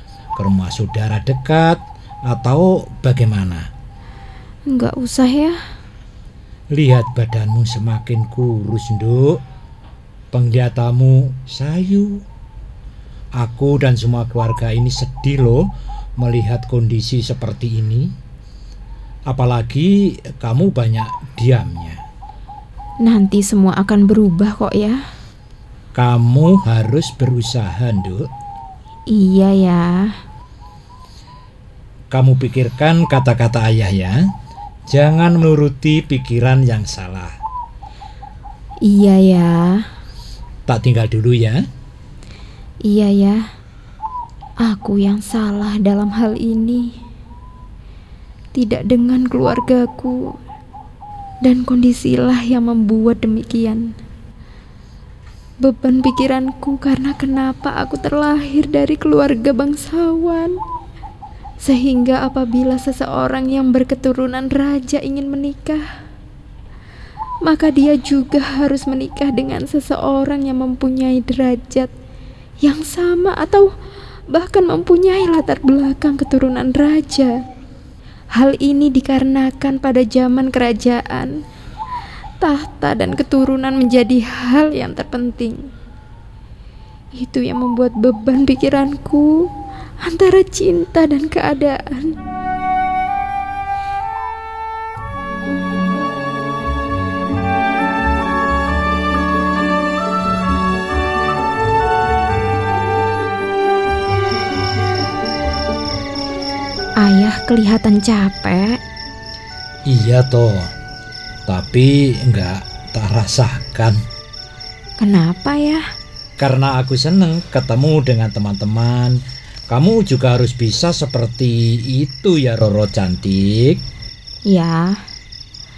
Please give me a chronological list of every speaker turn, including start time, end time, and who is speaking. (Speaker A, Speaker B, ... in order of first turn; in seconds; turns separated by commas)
Speaker A: 0.4-3.7, Speaker B: 4.7-5.6, Speaker A: 6.7-9.4, Speaker A: 10.3-12.2, Speaker A: 13.4-15.7, Speaker A: 16.2-18.1, Speaker A: 19.3-22.0, Speaker B: 23.0-25.0, Speaker A: 25.9-28.3, Speaker B: 29.1-30.2, Speaker A: 32.1-34.2, Speaker A: 34.9-37.3, Speaker B: 38.8-39.9, Speaker A: 40.7-41.6, Speaker B: 42.8-43.5, Speaker B: 44.6-46.9, Speaker B: 48.5-50.3, Speaker B: 51.4-53.9, Speaker B: 55.6-60.6, Speaker B: 61.6-65.8, Speaker B: 67.4-71.9, Speaker B: 72.6-73.7, Speaker B: 74.3-77.4, Speaker B: 78.3-81.4, Speaker B: 82.4-85.7, Speaker B: 87.2-89.5, Speaker B: 90.0-92.2, Speaker B: 107.0-108.8, Speaker A: 109.9-110.7, Speaker A: 111.5-114.0, Speaker B: 115.0-115.8, Speaker A: 116.4-119.2, Speaker A: 119.7-123.8, Speaker B: 124.5-125.0